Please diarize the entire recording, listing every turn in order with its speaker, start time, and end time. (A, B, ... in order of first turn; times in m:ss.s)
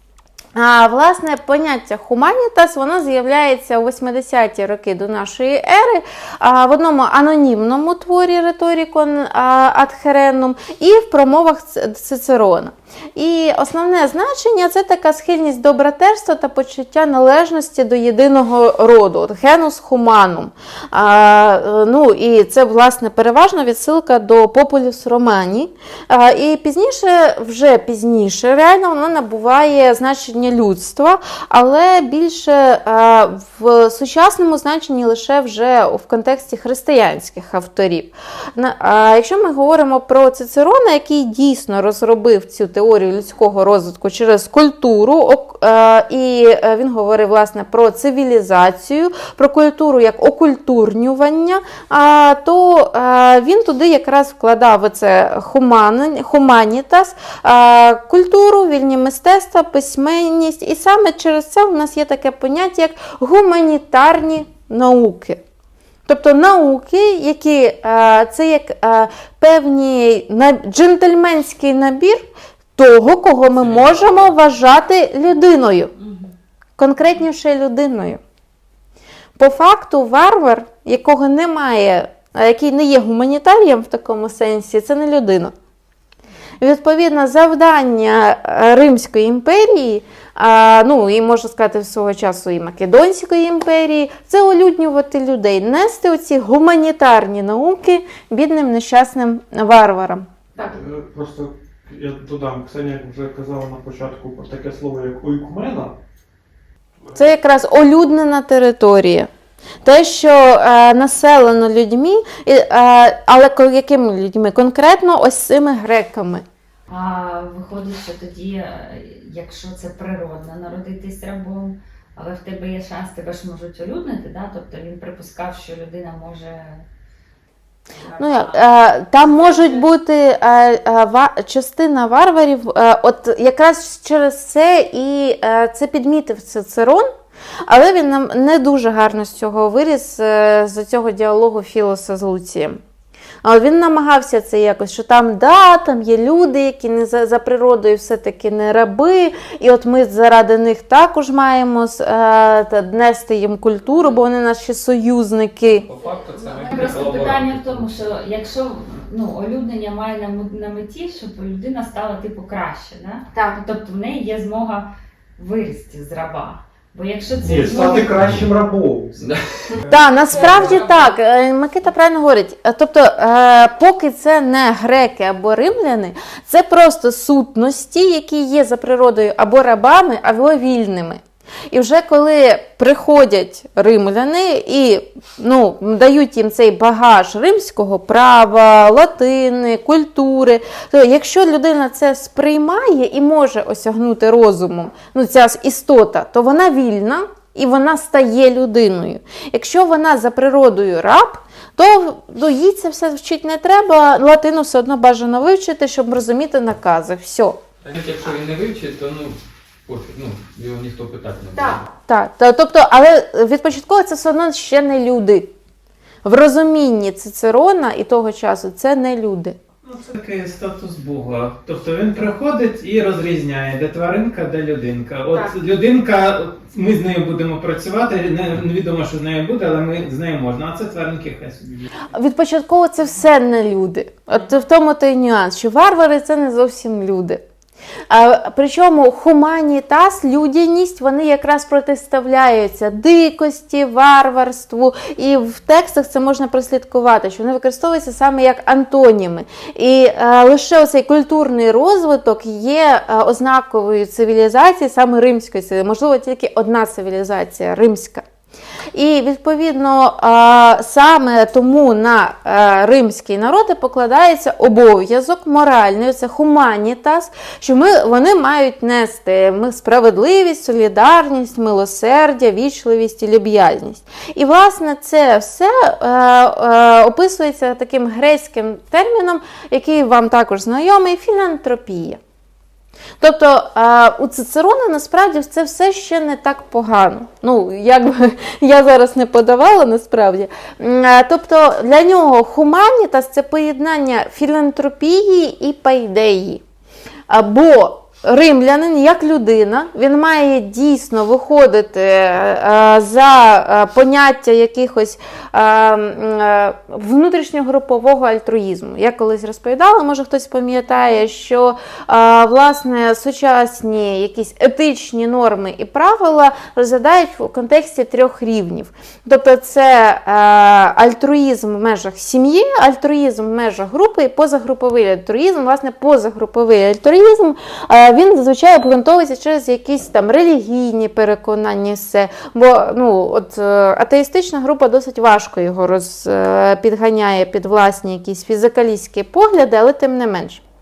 0:00.6-1:05.4 A
1:06.1-1:12.3 A
1:12.8-1:15.9 A
1:13.6-1:14.3 B
1:16.0-1:16.3 C
1:16.8-1:18.2 A
1:19.4-1:25.5 A
1:26.6-1:40.7 A
1:40.6-1:46.0 D
1:47.2-1:49.3 A
1:49.8-1:56.4 A
1:56.9-2:06.9 C
2:07.9-2:09.9 C
2:08.2-2:17.1 A
2:17.7-2:22.8 A
2:23.4-2:35.9 A
2:35.7-2:38.1 B
2:36.4-2:48.3 C
2:47.4-2:50.0 D
2:48.2-2:48.5 B
2:49.2-2:49.8 B
2:49.9-3:27.6 A
2:50.3-2:51.1 C
3:27.8-3:31.9 B
3:31.9-3:35.5 A
3:36.2-3:39.6 A
3:39.8-3:51.9 E
3:52.1-3:57.4 A
3:58.1-4:18.2 A
4:18.9-4:42.2 A
4:43.2-4:56.6 A
4:57.3-5:40.6 A